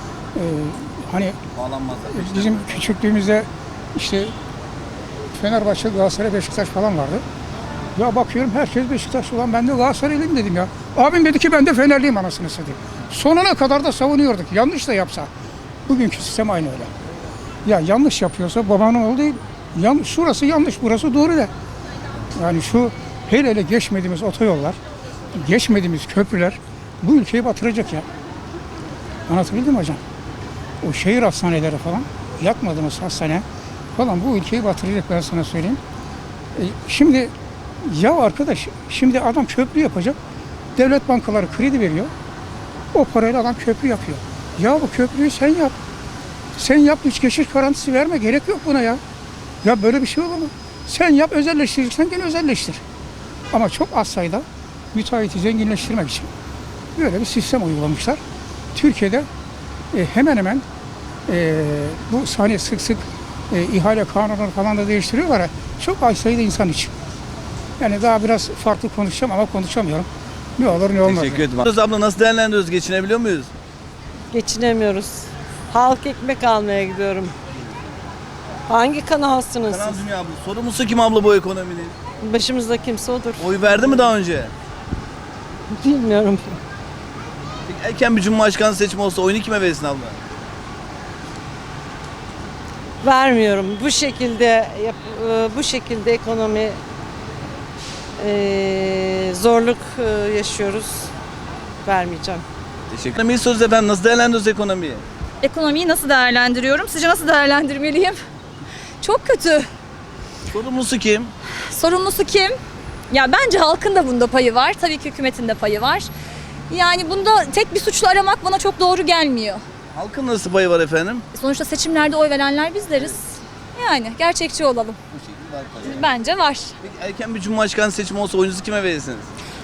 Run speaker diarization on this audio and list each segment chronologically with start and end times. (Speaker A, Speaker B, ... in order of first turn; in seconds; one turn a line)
Speaker A: 0.3-1.4
Speaker B: 1.5-2.9
Speaker A: 2.1-4.3
Speaker A: 5.3-7.2
Speaker A: 7.9-15.3
Speaker A: 15.8-16.9
Speaker A: 17.6-21.5
Speaker A: 22.3-24.8
Speaker A: 25.3-28.1
Speaker A: 29.3-30.0
Speaker A: 30.8-33.4
Speaker A: 34.0-35.8
Speaker A: 36.5-40.2
Speaker A: 40.8-42.1
Speaker A: 42.9-45.7
Speaker A: 46.5-49.0
Speaker A: 49.6-52.8
Speaker A: 53.5-56.3
Speaker A: 57.0-58.2
Speaker A: 58.7-59.3
Speaker A: 59.9-60.6
Speaker A: 61.3-66.9
Speaker A: 67.8-71.4
Speaker B: 71.0-73.5
Speaker C: 74.3-77.3
Speaker C: 78.7-80.0
Speaker B: 79.7-82.0
Speaker C: 82.2-84.1
Speaker B: 83.4-84.5
Speaker C: 85.7-86.5
Speaker B: 87.6-90.2
Speaker C: 93.0-96.8
Speaker C: 98.2-101.1
Speaker C: 101.8-102.4
Speaker B: 102.9-105.0
Speaker D: 105.4-108.2
Speaker D: 109.0-109.7
Speaker B: 110.5-111.3
Speaker D: 111.7-112.5
Speaker D: 113.1-116.1
Speaker D: 116.7-119.6
Speaker B: 119.9-121.2
Speaker D: 121.3-125.0
Speaker B: 125.1-126.0
Speaker D: 125.8-126.7
Speaker B: 126.8-129.3